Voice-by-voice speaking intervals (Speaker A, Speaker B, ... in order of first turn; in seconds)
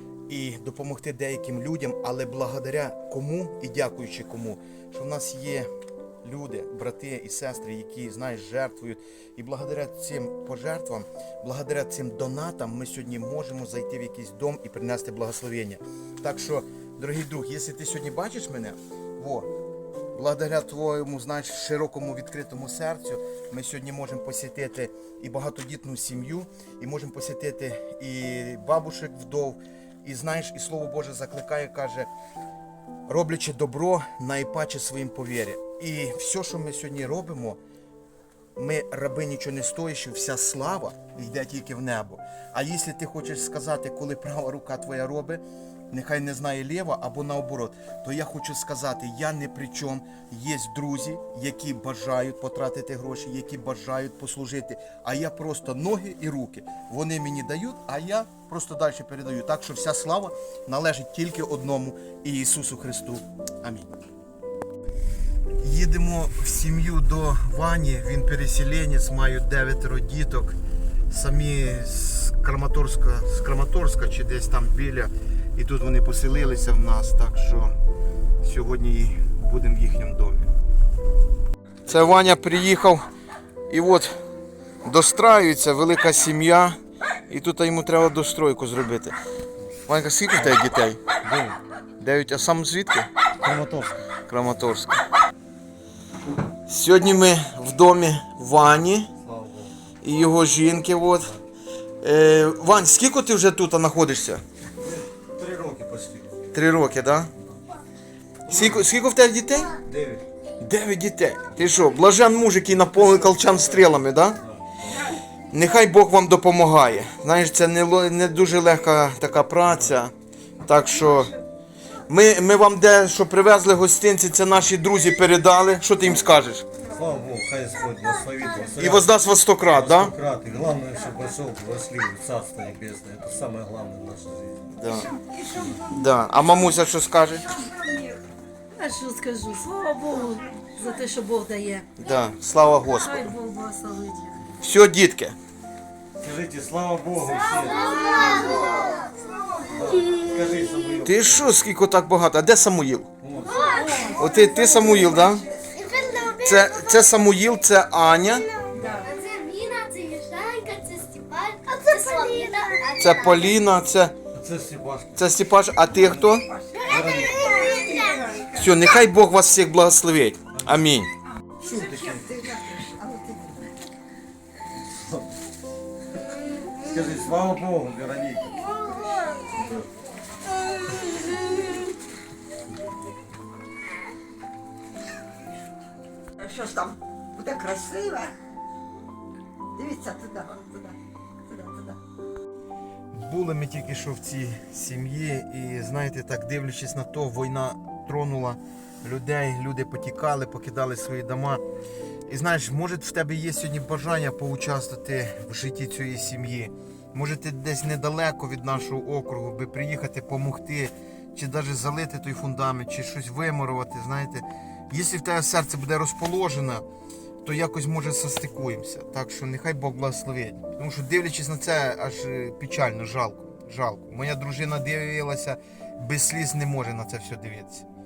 Speaker A: 0.3-5.7, 6.2-19.5, 20.1-32.1, 33.1-37.6, 38.5-63.9, 65.6-70.6, 71.1-77.8, 78.4-80.5, 81.8-83.0, 83.7-84.1, 84.8-86.8, 87.3-89.2, 89.9-91.0, 92.0-93.1, 94.3-95.0, 96.7-99.1, 100.0-101.3, 102.0-104.4, 106.5-107.3, 108.5-109.8, 110.6-114.4, 115.5-120.1, 120.6-121.3, 122.1-126.6, 128.8-130.1, 134.8-135.1, 135.8-137.5, 142.0-143.3, 144.6-145.3, 151.0-153.1, 154.2-155.4, 156.4-158.5, 163.0-164.1, 165.2-166.5, 168.5-171.1, 193.1-201.6, 202.3-216.8, 217.4-227.8
Speaker B: 90.3-90.6, 91.2-91.6, 93.4-94.0, 99.2-99.7, 104.8-106.5, 108.5-108.9, 109.8-110.2, 112.8-114.6, 126.8-129.1, 129.7-135.0, 146.2-148.3, 149.6-151.6, 153.2-154.1, 158.8-159.0, 164.3-165.2, 166.9-167.7, 170.5-170.8, 171.6-172.2, 174.7-175.3, 176.8-178.6
Speaker C: 135.1-136.4, 137.5-138.2, 147.9-149.7, 154.0-155.4, 162.0-162.7, 166.2-168.8, 171.6-173.7, 178.6-179.8, 186.4-188.3, 189.8-192.0
Speaker D: 138.8-141.9, 142.9-144.4, 153.8-154.4
Speaker E: 147.3-149.1, 153.4-154.9, 155.7-157.2, 158.3-163.6, 166.7-168.5